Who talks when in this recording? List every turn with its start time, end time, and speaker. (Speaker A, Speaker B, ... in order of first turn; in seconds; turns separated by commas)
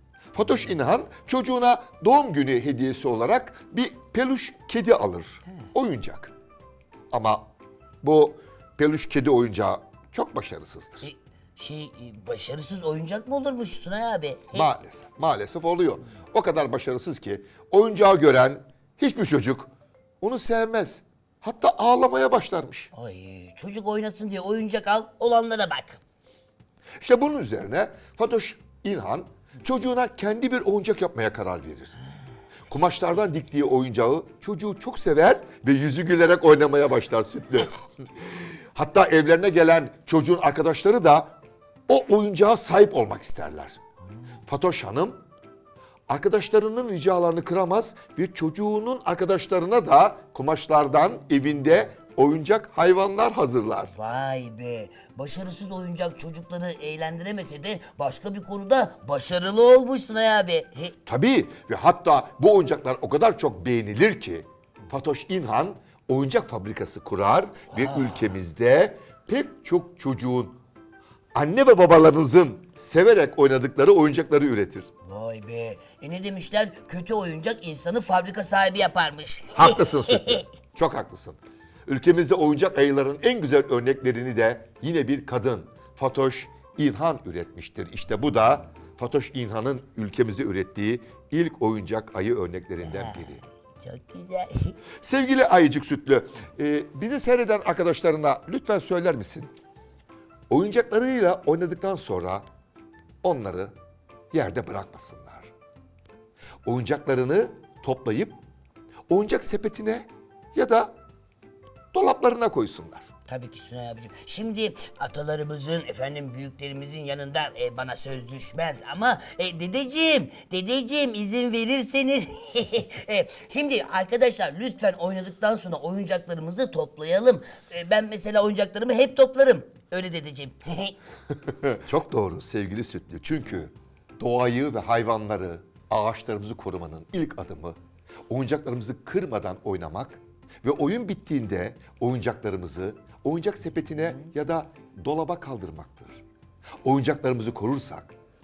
Speaker A: 0.3-6.3, Speaker A: 7.1-7.5, Speaker A: 8.0-11.1, Speaker B: 11.0-14.7, Speaker A: 14.5-19.7, Speaker A: 20.2-22.9, Speaker B: 22.9-26.0, Speaker A: 27.0-32.0, Speaker A: 32.7-41.4, Speaker A: 41.9-43.8, Speaker A: 44.5-45.2, Speaker A: 46.1-53.9, Speaker B: 53.9-61.0, Speaker A: 61.1-70.6, Speaker B: 67.7-68.3, Speaker A: 71.3-74.9, Speaker B: 75.0-80.4, Speaker A: 79.5-93.4, Speaker B: 92.8-94.8, Speaker A: 95.0-99.5, Speaker A: 100.5-102.5, Speaker A: 103.2-103.7, Speaker A: 104.3-105.5, Speaker A: 106.7-108.4, Speaker A: 109.1-110.9, Speaker A: 111.9-113.1, Speaker B: 113.3-131.0, Speaker A: 131.5-137.8, Speaker A: 138.3-146.2, Speaker A: 146.8-148.2